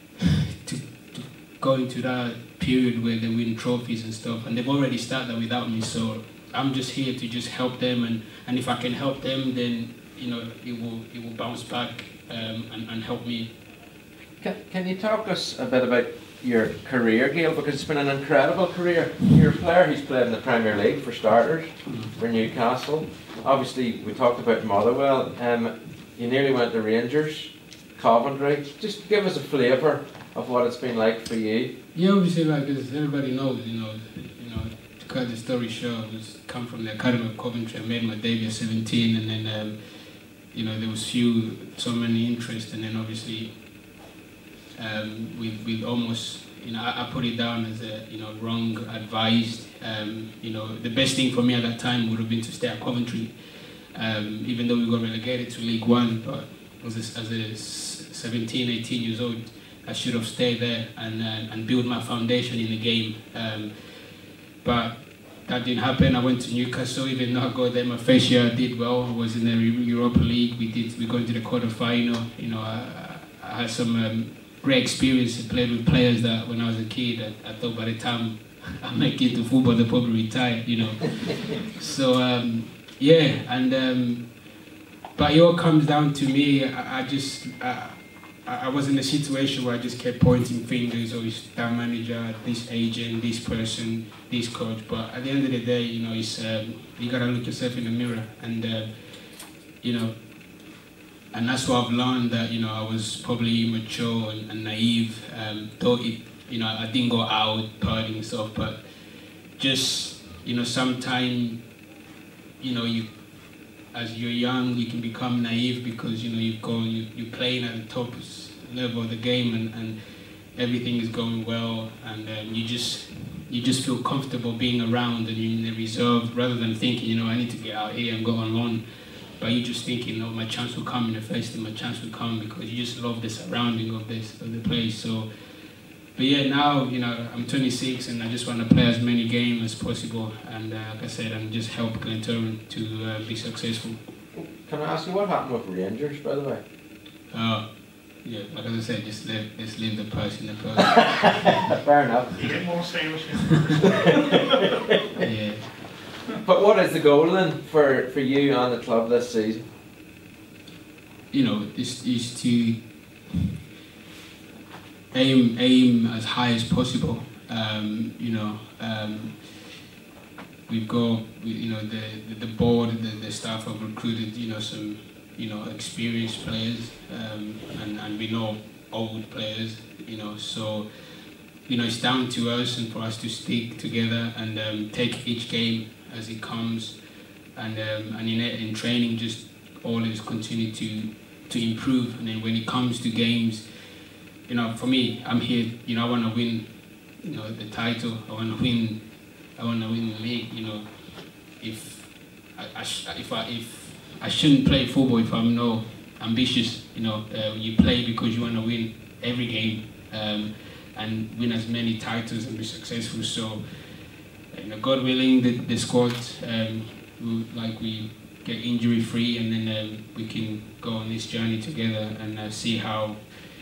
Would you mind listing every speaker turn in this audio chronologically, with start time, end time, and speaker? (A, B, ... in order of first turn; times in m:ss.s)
0:00.4-0:13.5 A
0:14.4-0:31.7 B
0:21.8-0:22.1 A
0:31.9-0:39.8 A
0:40.5-0:43.5 A
0:44.8-0:53.3 A
0:53.9-1:03.7 A
1:04.6-1:24.4 A
1:25.2-1:38.9 A
1:39.8-1:40.1 A
1:41.3-1:48.8 A
1:49.6-1:51.6 A
1:52.6-1:53.1 A
1:53.9-2:00.0 A
2:00.5-2:08.8 A
2:09.4-2:15.3 A
2:16.2-2:24.0 A
2:24.3-2:26.6 B
2:27.3-2:27.6 A
2:28.2-2:31.6 A
2:31.8-2:32.5 B
2:32.4-2:34.6 C
2:35.2-2:35.8 A
2:36.4-2:39.6 B
2:41.3-2:43.4 A
2:45.1-2:49.8 A
2:50.7-3:00.9 A
3:01.6-3:07.0 A
3:07.5-3:13.6 A
3:14.5-3:16.6 A
3:17.2-3:19.0 A
3:19.5-3:33.6 A
3:34.5-3:43.2 A